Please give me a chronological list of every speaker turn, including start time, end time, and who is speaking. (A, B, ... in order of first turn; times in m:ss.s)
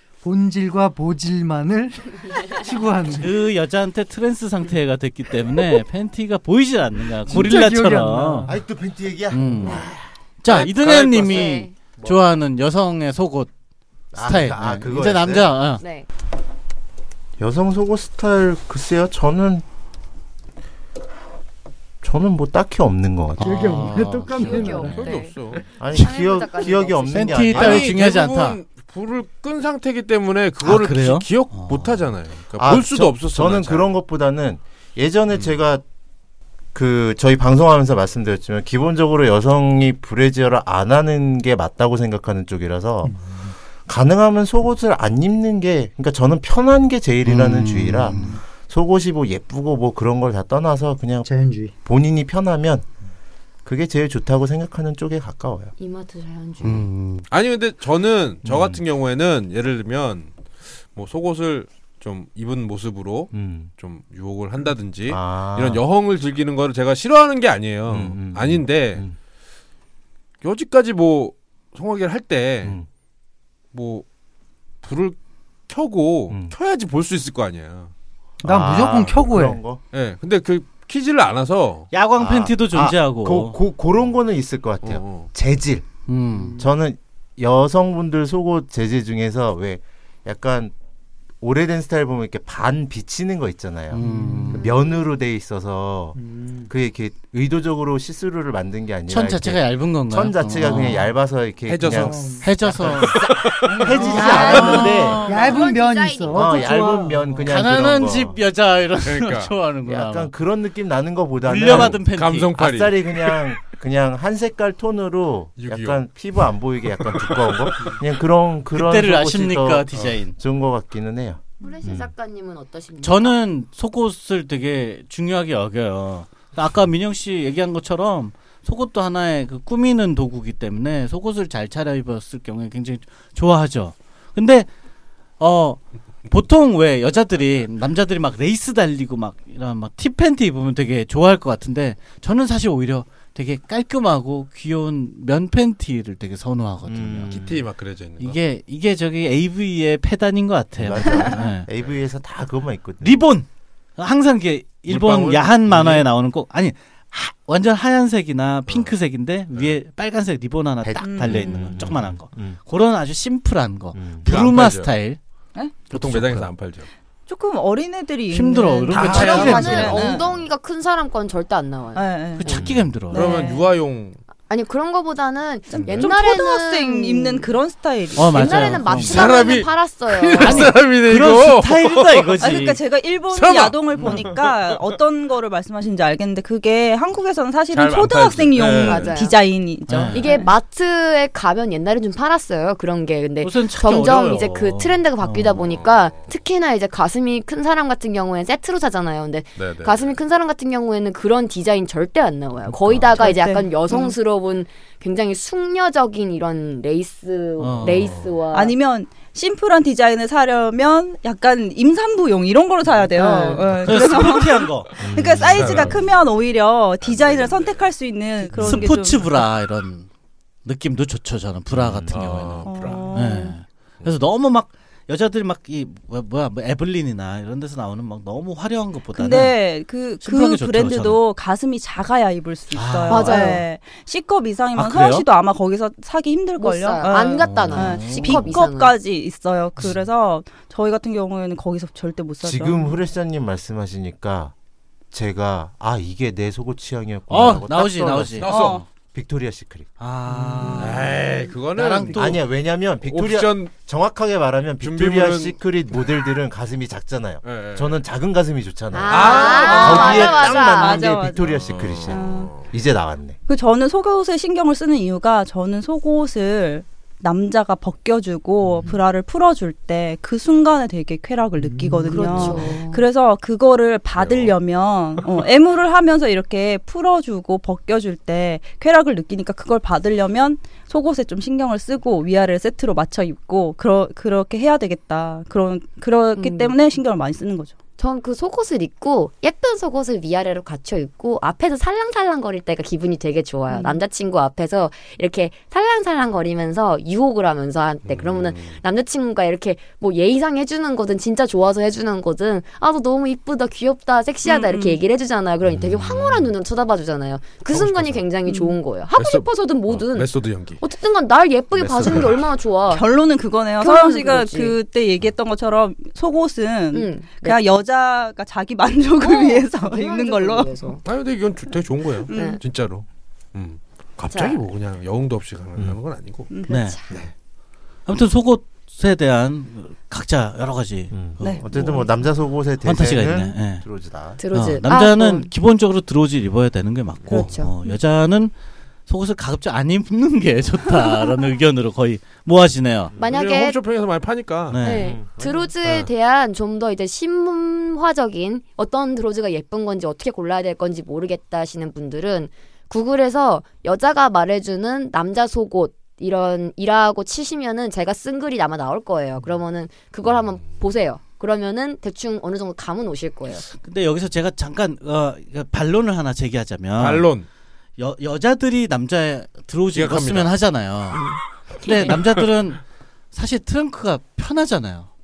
0:00.2-0:03.4 A
0:03.2-0:08.5 B
0:07.3-0:08.6 A
0:08.5-0:10.0 C
0:09.3-0:09.8 B
0:10.4-0:13.5 B
0:10.5-0:11.6 D
0:11.3-0:11.7 E
0:14.1-0:15.5 C
0:14.2-0:15.8 B
0:15.8-0:16.0 E
0:17.4-0:19.6 C
0:22.0-0:23.7 C
0:23.4-0:25.0 B
0:23.4-0:25.0 A
0:24.3-0:25.4 E
0:24.8-0:25.7 D
0:25.7-0:27.9 C
0:25.9-0:27.5 E
0:27.1-0:28.6 B
0:27.4-0:33.9 D
0:30.6-0:31.9 B
0:32.6-0:35.8 C
0:36.7-0:43.2 C
0:43.0-0:43.5 A
0:43.9-0:51.3 C
0:47.2-0:48.4 B
0:51.2-0:51.7 A
0:51.8-0:52.8 C
0:53.6-0:55.7 C
0:55.8-0:56.8 E
0:56.6-0:57.2 B
0:57.2-1:00.3 D
0:58.4-0:58.8 C
1:00.9-1:09.0 D
1:03.3-1:03.7 C
1:05.1-1:05.8 C
1:07.9-1:09.1 C
1:10.4-1:12.8 D
1:13.7-1:14.0 D
1:14.8-1:15.2 D
1:15.7-1:17.9 D
1:18.4-1:19.8 C
1:18.4-1:19.6 A
1:19.9-1:21.9 D
1:21.9-1:23.6 B
1:22.2-1:25.9 C
1:24.8-1:25.3 D
1:26.1-1:26.6 B
1:26.6-1:30.7 C
1:31.4-1:36.2 C
1:33.9-1:34.7 B
1:34.0-1:34.8 A
1:36.2-1:36.7 A
1:36.7-1:45.2 C
1:39.1-1:41.1 B
1:41.7-1:42.4 D
1:41.9-1:42.4 A
1:42.4-1:43.2 B
1:42.9-1:44.8 D
1:43.7-1:45.7 B
1:43.8-1:47.5 A
1:44.0-1:47.1 E
1:46.3-1:48.4 C
1:47.4-1:50.3 B
1:49.0-1:49.5 D
1:49.8-1:52.0 C
1:51.4-1:52.6 B
1:51.6-1:53.4 D
1:52.6-2:02.1 C
1:55.6-1:56.0 D
1:57.0-1:57.8 D
1:58.7-2:00.3 B
2:01.6-2:03.4 E
2:03.0-2:14.7 B
2:15.4-2:27.3 B
2:26.8-2:27.6 C
2:27.3-2:28.4 D
2:28.2-2:31.7 B
2:30.8-2:33.3 C
2:33.0-2:33.4 B
2:34.0-2:45.2 B
2:34.9-2:36.0 D
2:40.8-2:42.6 C
2:41.0-2:41.7 F
2:43.9-2:44.3 C
2:44.3-2:44.9 D
2:45.5-2:45.9 F
2:45.9-2:46.9 D
2:45.9-2:46.5 B
2:47.3-2:50.2 F
2:48.3-2:50.1 B
2:48.9-2:49.9 D
2:49.0-2:52.6 E
2:51.9-2:53.7 F
2:52.4-2:53.4 B
2:52.6-2:52.9 C
2:53.1-2:54.2 D
2:54.5-2:57.5 E
2:55.7-2:56.0 D
2:55.8-2:58.9 F
2:58.2-2:59.3 B
2:58.3-3:00.7 E
2:58.9-2:59.7 D
3:00.2-3:02.7 D
3:00.4-3:02.8 B
3:02.4-3:10.5 F
3:03.3-3:04.9 D
3:04.0-3:04.3 B
3:07.7-3:09.2 D
3:08.7-3:09.3 E
3:09.9-3:10.2 B
3:10.1-3:28.7 E
3:13.4-3:15.0 B
3:15.5-3:16.3 D
3:19.6-3:20.1 D
3:23.1-3:24.1 F
3:27.6-3:28.1 B
3:27.8-3:28.1 D
3:28.5-3:39.3 F
3:33.1-3:33.6 E
3:33.8-3:35.0 B
3:35.0-3:35.9 C
3:35.3-3:36.1 D
3:37.0-3:37.9 D
3:38.5-3:40.1 B
3:38.6-3:38.9 C
3:40.6-3:49.6 B
3:41.8-3:42.1 C
3:42.1-3:43.2 D
3:42.6-3:43.6 F
3:49.1-4:03.0 F
3:50.2-3:51.2 B
3:52.7-3:53.6 B
3:53.1-3:53.6 E
3:54.8-3:55.3 B
3:56.6-3:58.9 E
3:57.4-3:58.1 C
3:57.7-3:58.4 B
4:02.4-4:04.5 C
4:05.1-4:08.5 C
4:07.3-4:08.5 B
4:08.4-4:08.8 D
4:08.5-4:08.8 F
4:09.1-4:09.9 C
4:10.0-4:11.2 B
4:10.3-4:10.8 A
4:10.8-4:12.4 D
4:11.7-4:12.4 B
4:12.1-4:23.4 C
4:13.0-4:13.7 D
4:14.8-4:15.6 D
4:17.4-4:18.0 D
4:18.9-4:21.0 E
4:19.1-4:20.6 D
4:19.2-4:21.5 F
4:21.4-4:22.7 D
4:22.1-4:22.5 F
4:23.5-4:47.7 F
4:31.6-4:32.4 A
4:32.1-4:33.0 E
4:34.1-4:34.6 D
4:46.4-4:46.7 E
4:48.0-5:10.3 E
4:53.7-4:54.0 F
5:04.4-5:05.0 F
5:05.7-5:06.5 C
5:07.7-5:08.3 D
5:08.4-5:08.8 F
5:09.1-5:10.8 D
5:10.8-5:13.0 E
5:11.7-5:12.5 D
5:12.9-5:20.9 F
5:13.8-5:14.8 E
5:16.9-5:17.6 E
5:19.2-5:21.0 E
5:21.0-5:26.5 D
5:22.3-5:22.6 F
5:22.3-5:22.6 E
5:24.3-5:24.6 E
5:26.5-5:26.8 F
5:26.6-5:27.1 E
5:26.7-5:27.0 B
5:28.0-5:31.6 B
5:31.1-5:34.4 C
5:31.4-5:32.1 F
5:32.8-5:33.8 B
5:34.4-5:35.5 E
5:34.5-5:38.5 B
5:37.3-5:37.7 E
5:37.5-5:37.9 F
5:39.1-5:43.1 B
5:43.2-5:43.8 E
5:43.2-5:45.0 D
5:44.7-5:45.1 B
5:44.8-6:03.6 E
5:45.0-5:45.7 C
5:45.8-5:46.1 D
6:03.8-6:07.3 B
6:07.0-6:07.4 D
6:08.0-6:11.2 B
6:09.9-6:10.6 D
6:11.8-6:12.8 B
6:13.3-6:15.1 B